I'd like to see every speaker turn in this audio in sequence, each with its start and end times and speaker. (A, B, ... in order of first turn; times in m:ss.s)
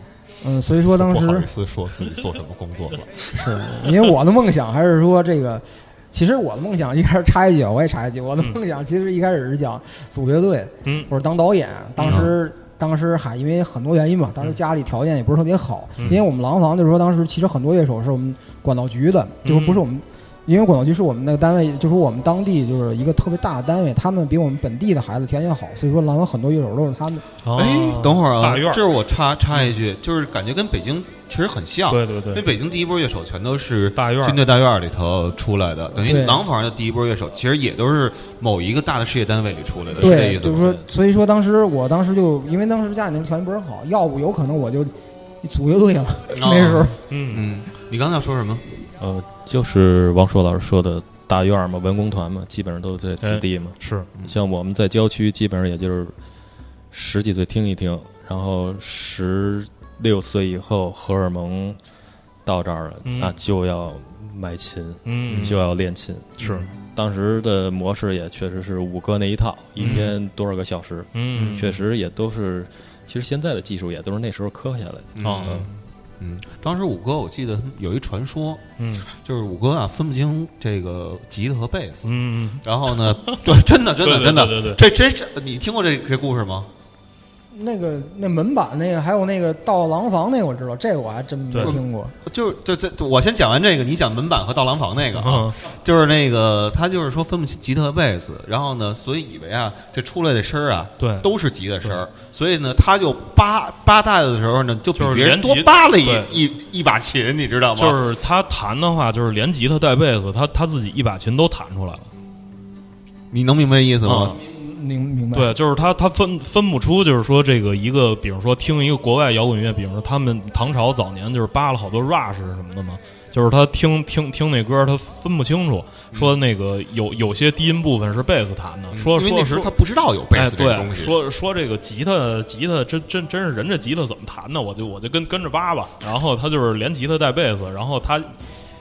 0:00.4-0:01.5 A
0:00.8-0:03.1 B
0:03.3-0:27.2 A
0:10.8-0:11.1 C
0:12.0-0:12.3 C
0:19.4-0:19.9 C
0:27.4-0:28.8 C
0:27.6-0:40.8 B
0:31.9-0:32.5 C
0:34.0-0:34.4 C
0:36.0-0:36.4 A
0:40.0-0:44.9 A
0:45.4-0:47.0 A
0:46.3-0:48.6 B
0:47.1-0:47.4 C
0:49.0-0:56.2 D
0:53.2-0:54.1 C
0:56.9-1:01.8 D
1:02.4-1:15.7 D
1:03.0-1:03.4 C
1:05.0-1:05.6 C
1:05.3-1:05.5 B
1:06.4-1:06.7 C
1:09.8-1:10.1 C
1:11.1-1:11.8 C
1:11.3-1:11.6 B
1:15.2-1:26.7 B
1:15.2-1:15.7 C
1:18.8-1:19.1 C
1:22.0-1:24.8 C
1:27.5-1:32.1 A
1:31.6-1:48.0 B
1:35.2-1:35.6 C
1:41.0-1:41.3 C
1:45.0-1:46.4 C
1:47.8-1:52.1 C
1:53.3-1:54.4 B
1:54.0-1:54.4 C
1:54.3-1:55.6 A
1:55.3-2:09.7 C
2:08.9-2:11.1 B
2:10.3-2:18.3 C